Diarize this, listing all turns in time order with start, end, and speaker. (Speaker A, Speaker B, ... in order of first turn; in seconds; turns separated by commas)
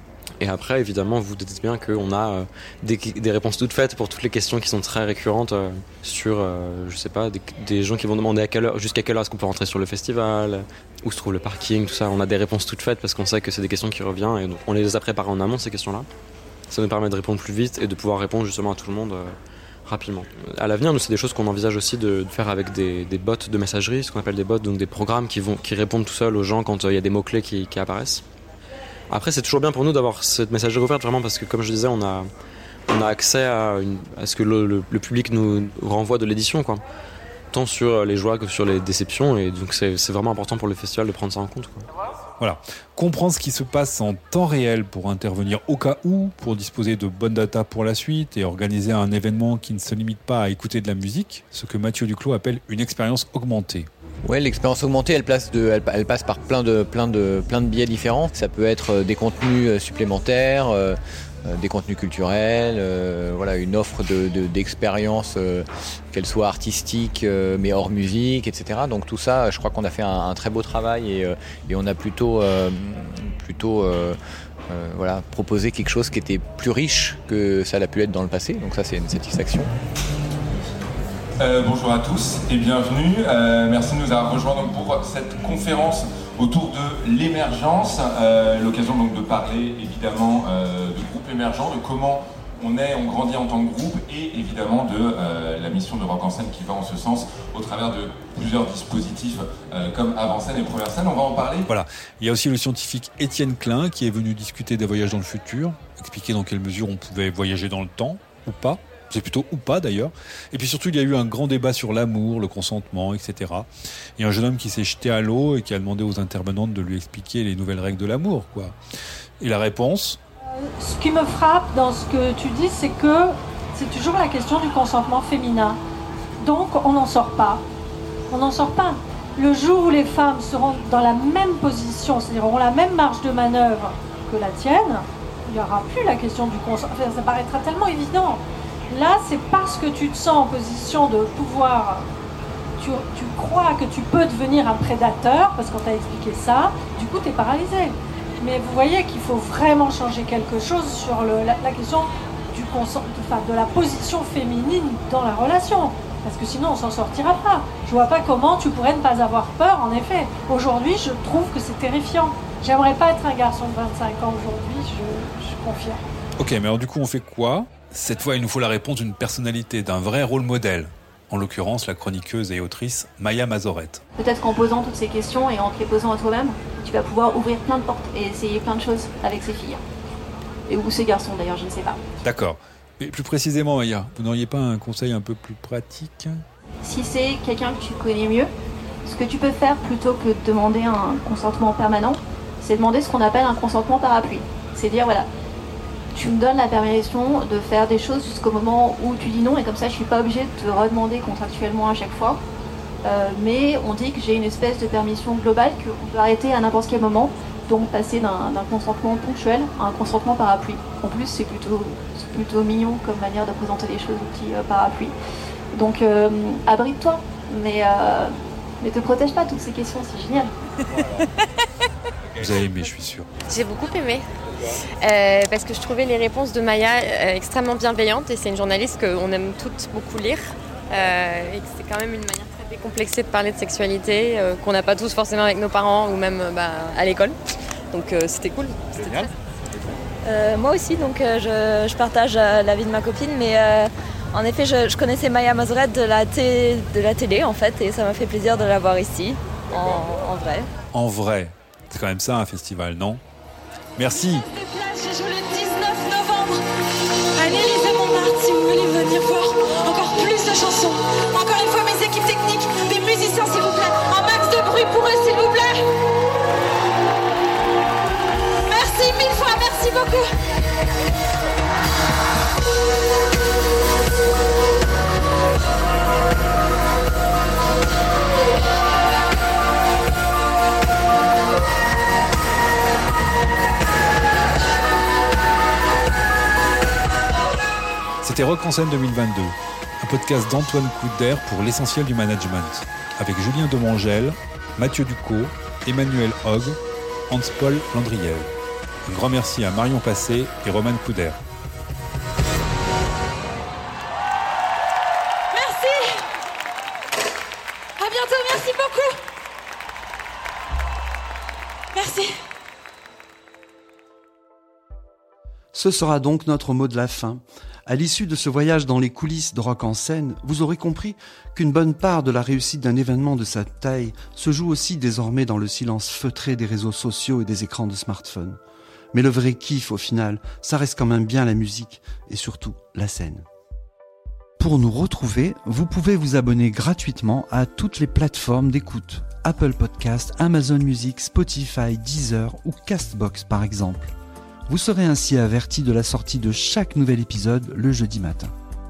Speaker A: 0.4-16.1, Speaker A: 16.7-28.2, Speaker A: 29.1-32.3, Speaker A: 32.9-36.8, Speaker A: 37.5-41.9, Speaker B: 42.4-53.9, Speaker C: 54.2-74.2, Speaker C: 74.7-79.7, Speaker D: 81.4-101.7, Speaker B: 101.7-118.8, Speaker B: 119.4-120.2, Speaker E: 120.6-125.8, Speaker E: 126.4-127.6, Speaker E: 128.3-142.1, Speaker E: 142.8-166.0, Speaker B: 166.4-174.0, Speaker F: 174.2-179.8, Speaker F: 180.7-182.0, Speaker B: 182.2-186.4, Speaker F: 186.8-188.5, Speaker F: 189.1-195.3, Speaker F: 196.2-202.4, Speaker F: 203.0-215.1, Speaker F: 215.7-220.5, Speaker B: 222.4-223.3, Speaker G: 223.5-224.2, Speaker G: 225.0-237.4, Speaker G: 237.9-239.3, Speaker H: 240.2-250.7, Speaker B: 250.9-253.2, Speaker B: 254.0-254.5, Speaker I: 254.6-256.5, Speaker I: 257.4-265.7, Speaker I: 268.7-270.2, Speaker B: 288.2-296.8, Speaker B: 297.3-298.5, Speaker B: 299.1-301.4, Speaker I: 305.6-305.9, Speaker I: 308.0-309.0, Speaker J: 315.7-328.6, Speaker J: 329.1-333.4, Speaker J: 334.6-344.1, Speaker J: 344.7-348.5